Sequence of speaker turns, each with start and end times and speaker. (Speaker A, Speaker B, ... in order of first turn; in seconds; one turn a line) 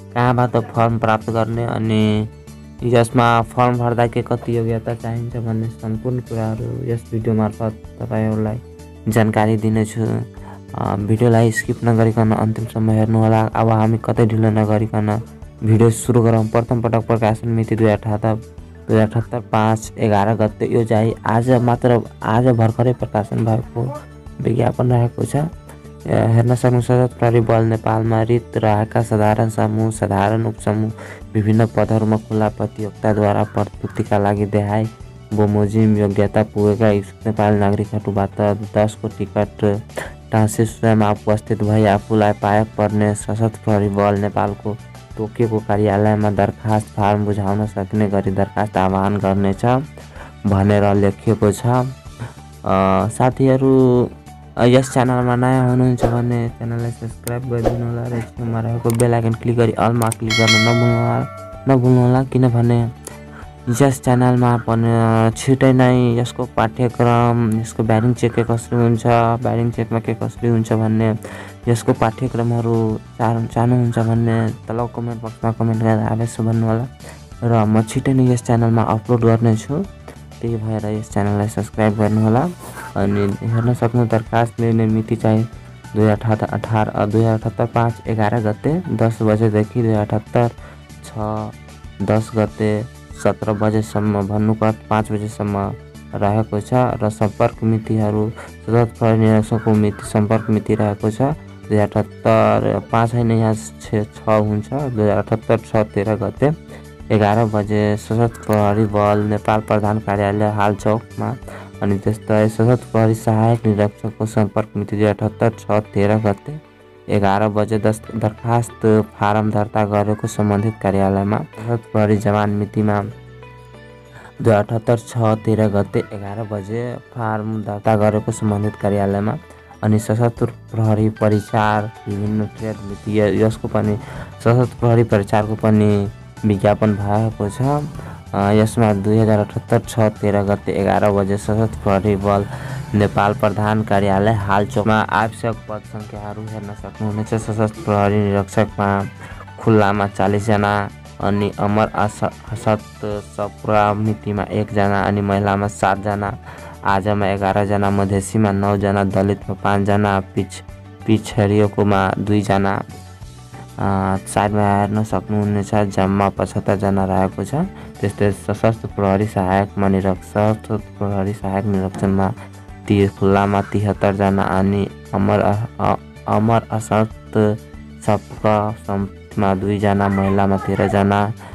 Speaker A: 0.1-2.1
Speaker A: 2.9-10.1
Speaker A: 10.8-18.4
Speaker A: 18.9-23.9
Speaker A: 24.4-25.4
Speaker A: 26.1-39.7
Speaker A: 40.3-49.8
Speaker A: 50.5-51.8
Speaker A: 52.7-54.1
Speaker A: 54.6-62.8
Speaker A: 63.7-71.1
Speaker A: 71.7-76.9
Speaker A: 77.4-79.8
Speaker A: 80.4-90.5
Speaker A: 91.0-106.5
Speaker A: 107.1-116.6
Speaker A: 117.1-123.0
Speaker A: 124.4-137.8
Speaker A: 138.3-149.1
Speaker A: 149.6-156.3
Speaker A: 156.9-162.8
Speaker A: 163.8-172.3
Speaker A: 172.8-177.4
Speaker A: 178.0-181.3